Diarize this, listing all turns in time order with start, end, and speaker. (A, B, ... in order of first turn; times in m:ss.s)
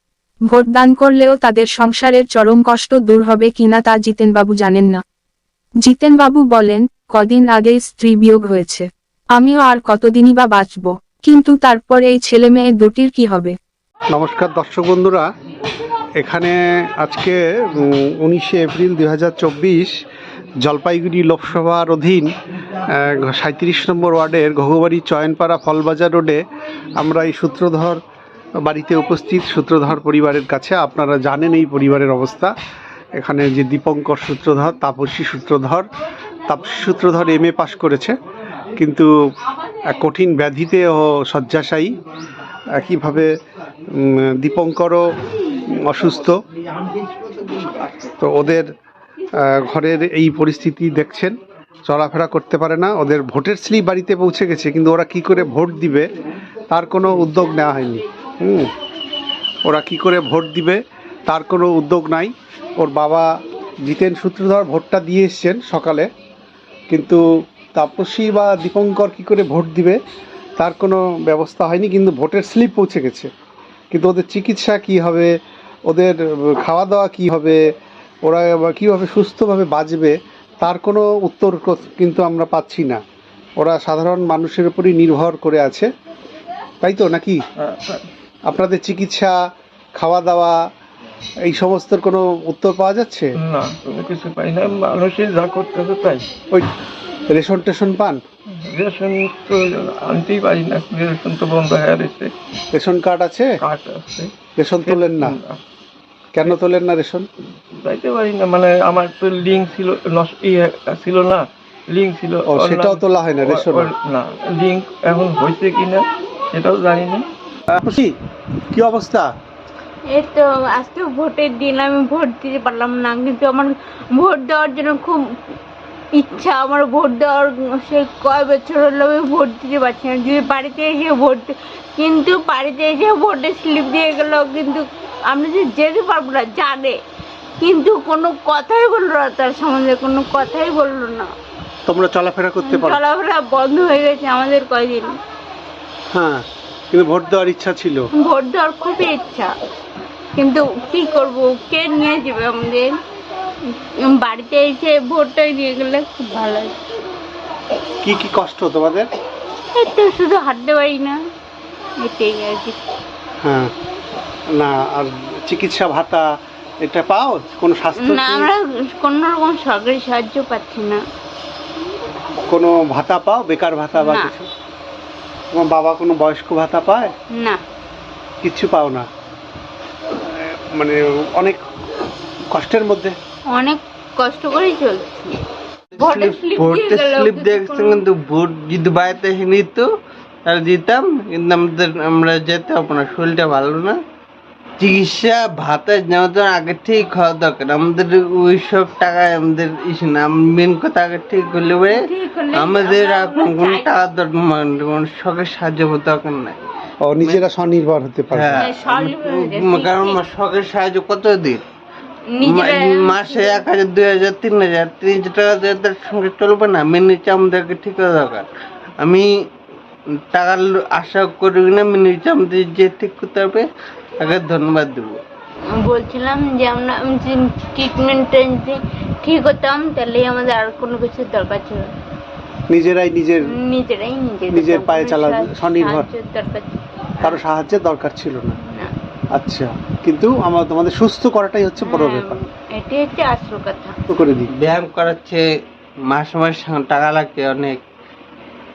0:00.5-0:05.0 A
0:05.8-0:13.5 A
0:14.1-0:15.3 B
0:16.2-0:19.9 B
0:20.6-0:22.3 B
0:22.9-0:26.4 B
0:27.0-0:28.0 B
0:28.6-0:32.5 B
0:33.2-0:35.8 B
0:36.5-0:38.1 B
0:38.8-0:39.1 B
0:39.9-0:41.9 B
0:42.7-0:43.3 B
0:43.9-0:45.0 B
0:45.7-0:46.4 B
0:48.2-0:48.7 B
0:49.4-0:51.3 B
0:51.9-0:56.1 B
0:56.7-0:58.7 B
0:59.6-1:03.3 B
1:03.8-1:06.1 B
1:06.9-1:10.0 B
1:10.6-1:13.3 B
1:13.9-1:15.3 B
1:15.9-1:17.6 B
1:18.2-1:23.0 B
1:23.6-1:25.9 B
1:26.8-1:27.4 B
1:27.6-1:28.1 C
1:28.5-1:29.3 B
1:30.0-1:30.6 B
1:31.4-1:33.3 B
1:33.4-1:36.2 C
1:37.3-1:38.2 B
1:38.6-1:42.3 C
1:42.7-1:43.5 B
1:43.6-1:45.6 C
1:44.6-1:45.4 B
1:46.3-1:47.2 B
1:47.7-1:57.2 C
1:52.5-1:53.9 B
1:57.7-1:58.1 B
1:58.7-1:59.3 B
2:00.1-2:05.2 D
2:06.2-2:17.0 D
2:17.6-2:21.3 D
2:21.9-2:23.0 B
2:22.6-2:25.1 D
2:26.1-2:28.0 B
2:28.2-2:29.5 D
2:30.4-2:32.9 D
2:33.7-2:36.7 D
2:38.0-2:39.1 B
2:39.8-2:41.2 D
2:42.0-2:42.8 D
2:43.4-2:43.7 B
2:44.5-2:46.3 B
2:46.8-2:48.5 B
2:48.0-2:51.0 D
2:52.5-2:54.5 B
2:54.0-2:54.3 D
2:55.5-2:57.1 B
2:57.3-2:57.6 D
2:58.4-2:59.1 B
3:00.2-3:01.6 B
3:02.5-3:03.1 B
3:03.5-3:05.4 D
3:06.0-3:09.9 E
3:06.0-3:08.0 D
3:10.4-3:14.0 E
3:14.8-3:26.6 E
3:21.9-3:24.0 D
3:27.0-3:28.7 B
3:28.3-3:31.6 E
3:28.6-3:30.2 D
3:32.3-3:33.6 D
3:32.4-3:38.5 E
3:39.0-3:39.3 E
3:40.3-3:43.6 E
3:44.2-3:45.1 E
3:45.8-3:51.9 D
3:52.7-3:53.5 B
3:53.6-3:56.8 D
3:54.5-3:56.1 B
3:57.2-3:58.6 B
3:58.6-3:58.9 D
3:59.3-4:02.4 B
4:01.8-4:04.0 D
4:04.1-4:04.5 B
4:04.5-4:05.4 E
4:06.1-4:07.8 E